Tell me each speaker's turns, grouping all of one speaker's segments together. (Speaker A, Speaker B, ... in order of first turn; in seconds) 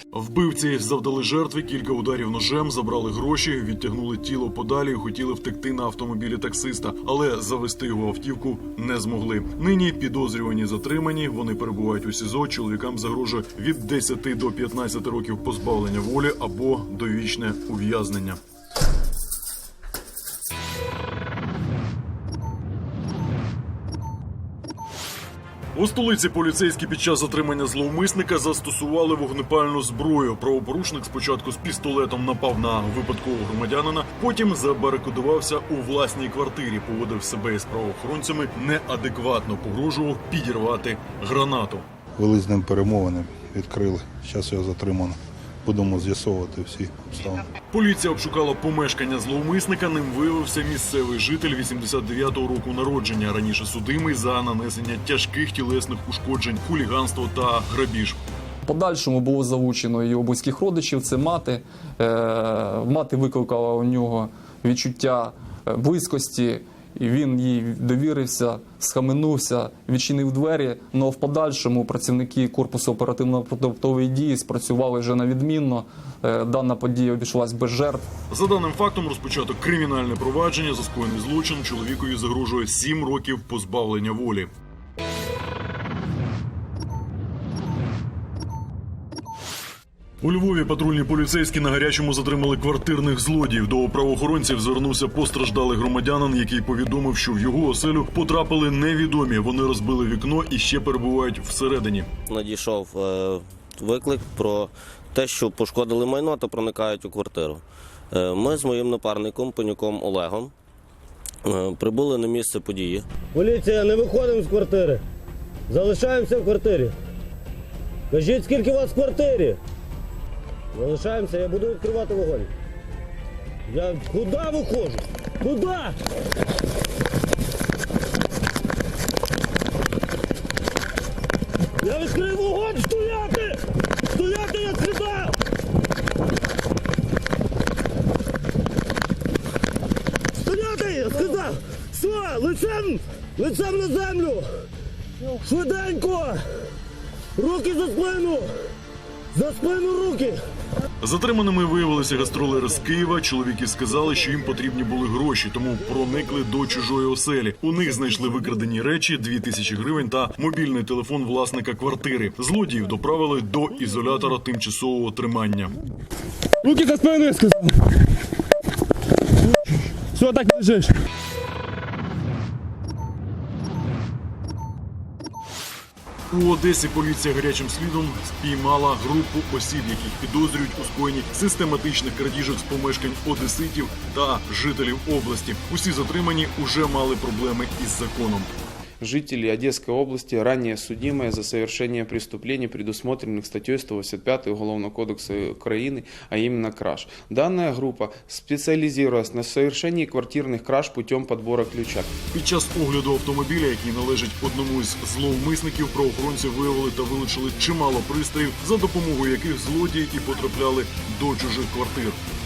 Speaker A: 0.1-18.4, 25.8-41.9, 47.7-58.2, 78.3-84.5, 90.2-102.1, 151.0-165.7, 176.3-188.5, 202.3-212.2
Speaker B: 42.2-45.2, 45.7-47.4
Speaker C: 58.7-78.1
Speaker D: 102.3-110.5, 111.5-113.0
Speaker E: 113.3-115.0, 115.7-116.9, 118.1-119.6, 120.7-122.5, 123.7-126.0, 131.8-133.6, 134.1-135.3, 140.4-144.5, 145.4-146.4, 147.4-148.5, 149.3-150.4
Speaker F: 189.0-202.1